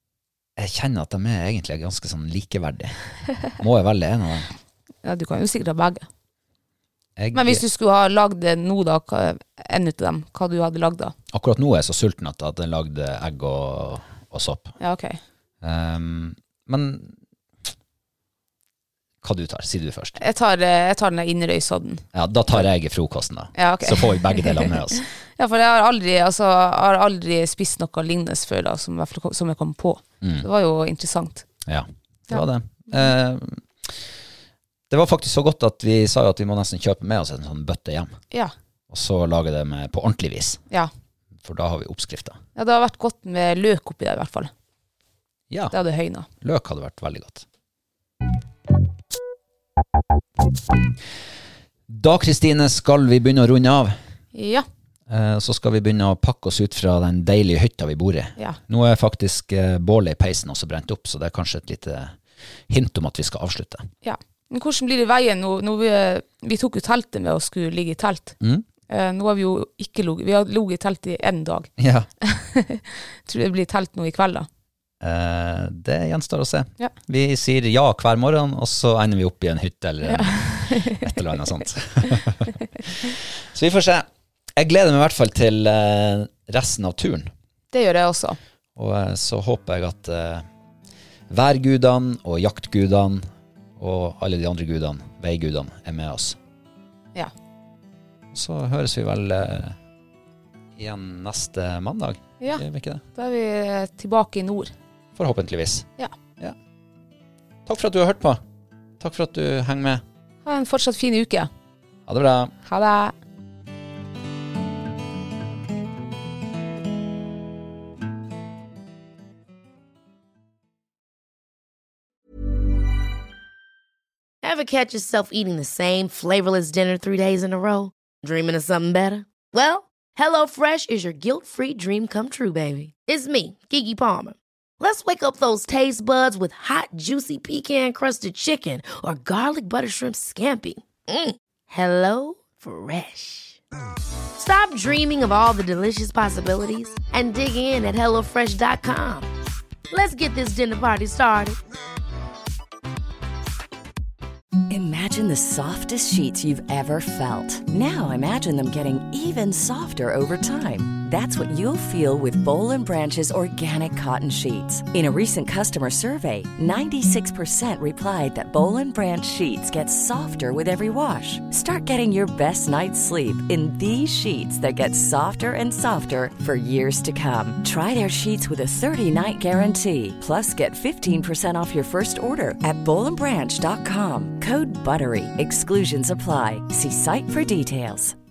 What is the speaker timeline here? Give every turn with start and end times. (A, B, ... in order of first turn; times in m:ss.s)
0:00.6-0:03.0 A
0:03.5-0:04.5 A
0:05.0-0:06.0 B
0:07.2-0:07.6 A
0:07.3-0:11.1 B
0:11.3-0:14.7 A
0:14.8-0:15.2 B
0:15.6-0:17.2 A
0:19.2-0:20.2 A
0:20.2-0:22.0 B
0:22.1-0:25.0 A
0:23.6-0:31.4 B
0:30.2-0:30.5 A
0:31.6-0:34.0 A
0:34.9-0:38.2 A
0:38.9-0:40.6 A
0:41.4-0:42.4 A
0:42.5-0:44.5 B
0:45.5-0:45.8 A
0:45.7-0:46.3 B
0:46.4-0:47.4 A
0:51.9-0:53.9 A
0:54.3-0:54.6 B
0:55.1-1:02.2 A
1:02.7-1:03.9 A
1:04.0-1:08.4 B
1:08.9-1:11.7 B
1:11.8-1:12.1 A
1:12.2-1:14.5 B
1:15.0-1:27.3 A
1:20.0-1:21.0 B
1:27.7-1:28.4 B
1:28.8-1:30.4 A
1:31.3-1:33.2 A
1:33.8-1:36.4 A
1:38.3-1:39.8 A
1:40.8-1:43.0 A
1:43.2-1:44.7 B
1:45.2-1:45.9 A
1:47.6-1:48.4 A
1:49.0-1:50.0 A
1:50.4-1:51.5 B
1:52.1-1:52.5 A
1:52.6-1:53.1 B
2:04.4-2:23.6 C
2:24.4-2:29.3 C
2:29.9-2:31.6 C
2:34.7-3:08.2 D